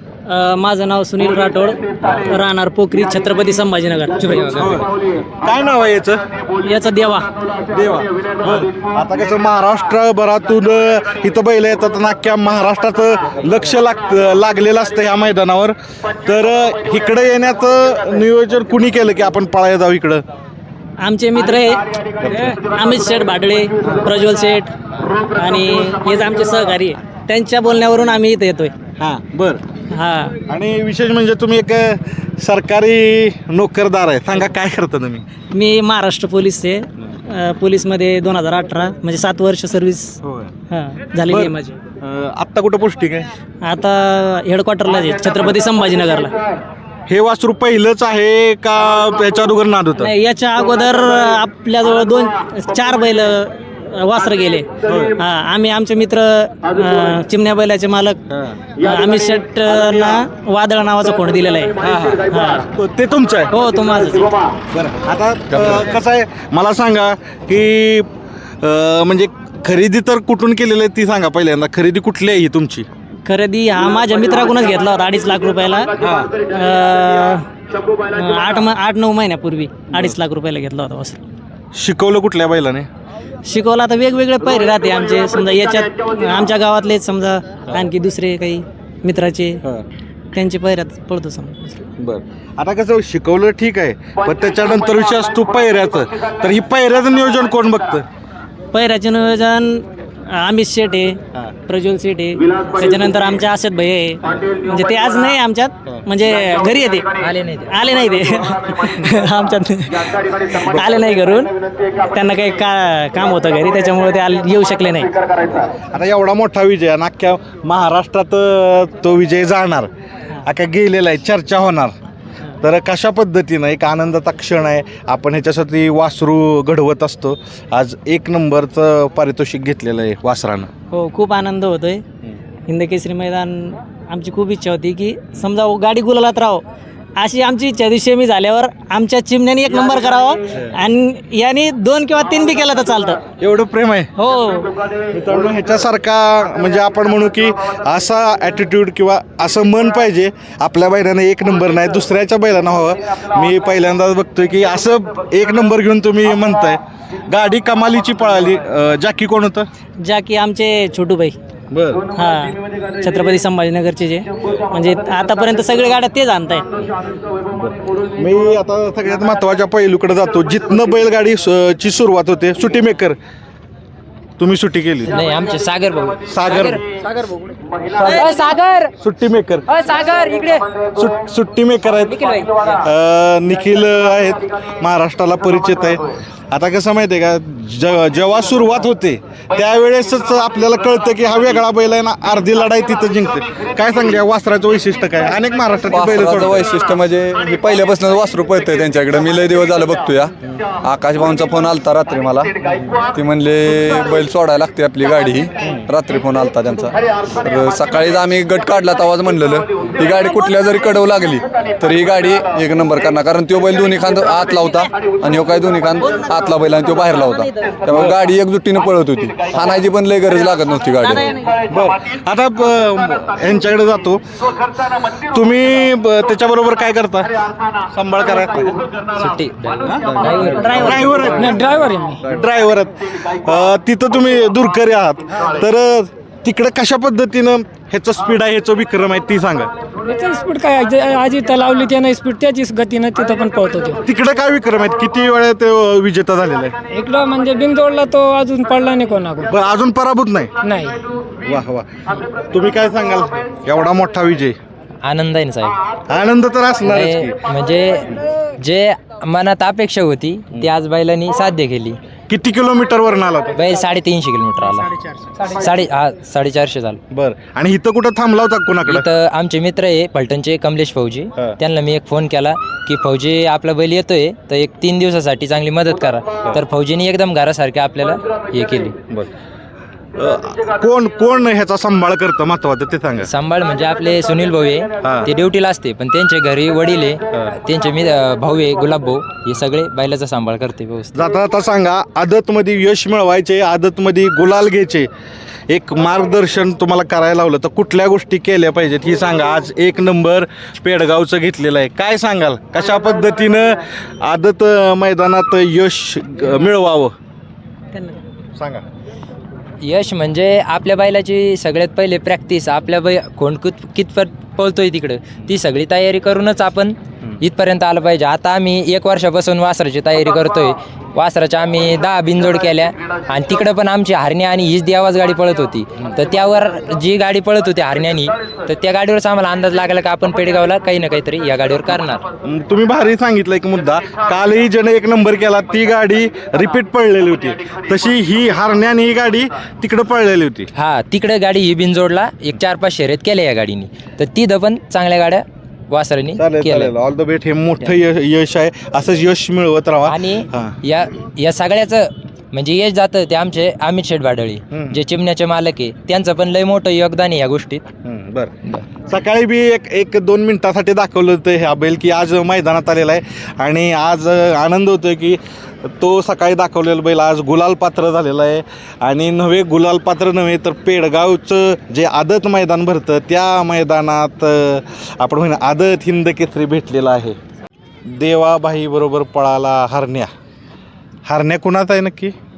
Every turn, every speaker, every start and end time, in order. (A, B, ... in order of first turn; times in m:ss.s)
0:00.3-0:04.8 A
0:04.3-0:04.8 B
0:04.6-0:06.2 C
0:06.6-0:07.3 A
0:07.7-0:20.2 C
0:21.0-0:28.7 A
0:22.2-0:22.6 C
0:23.8-0:24.1 C
0:29.0-0:29.6 C
0:29.9-0:30.4 A
0:30.5-0:35.2 C
0:35.5-0:40.1 A
0:40.2-0:40.5 C
0:40.7-0:41.8 A
0:41.3-0:43.3 C
0:43.6-0:46.3 A
0:47.1-0:50.1 C
0:50.0-0:58.2 A
0:54.9-0:55.2 C
0:58.3-0:58.6 C
0:58.8-1:02.7 A
1:01.8-1:03.6 C
1:03.5-1:04.4 A
1:04.7-1:08.1 C
1:05.5-1:05.8 D
1:08.6-1:12.9 C
1:13.2-1:15.9 A
1:16.0-1:16.3 C
1:16.4-1:17.5 A
1:18.1-1:21.2 A
1:21.8-1:22.9 C
1:23.4-1:29.6 A
1:30.3-1:31.8 A
1:32.0-1:38.0 C
1:38.7-1:47.1 A
1:47.2-1:47.8 B
1:47.7-1:55.2 A
1:55.7-1:59.9 C
2:00.4-2:02.0 C
2:02.6-2:10.7 C
2:10.9-2:12.0 A
2:12.7-2:16.6 A
2:17.2-2:23.2 A
2:23.4-2:24.1 C
2:24.2-2:24.7 A
2:25.1-2:39.7 C
2:40.0-2:41.4 A
2:41.7-2:42.0 C
2:42.1-2:46.9 A
2:47.5-2:53.2 C
2:54.4-2:55.2 C
2:55.0-2:57.4 B
2:56.3-2:56.8 C
2:57.9-2:58.3 C
2:58.0-2:58.9 B
2:59.0-2:59.7 C
2:59.7-3:00.7 B
3:00.9-3:16.6 C
3:02.1-3:02.6 B
3:15.9-3:41.4 D
3:37.9-3:38.2 C
3:41.1-3:41.5 A
3:41.7-3:44.2 C
3:44.9-3:48.8 C
3:49.2-3:51.3 B
3:50.6-3:51.4 A
3:50.8-3:59.7 C
3:51.4-3:52.3 E
4:00.0-4:04.0 E
4:04.0-4:06.8 C
4:06.9-4:09.5 E
4:09.4-4:10.5 C
4:10.6-4:11.1 E
4:11.4-4:14.6 C
4:15.0-4:15.8 B
4:16.1-4:17.4 C
4:16.8-4:22.0 B
4:22.3-4:23.6 C
4:23.6-4:27.0 B
4:27.1-4:29.1 C
4:28.9-4:39.0 B
4:40.2-4:43.3 C
4:43.2-4:51.2 B
4:45.0-4:45.3 C
4:51.2-4:55.1 C
4:55.7-5:07.1 C
5:08.6-5:08.8 C
5:09.8-5:32.2 B
5:32.4-5:40.7 C
5:40.8-5:46.9 B
5:46.4-5:50.8 C
5:50.1-5:57.9 B
5:54.7-5:55.0 C
5:58.0-5:58.5 C
5:59.1-6:17.4 C
6:18.1-6:20.3 C
6:21.3-6:22.3 C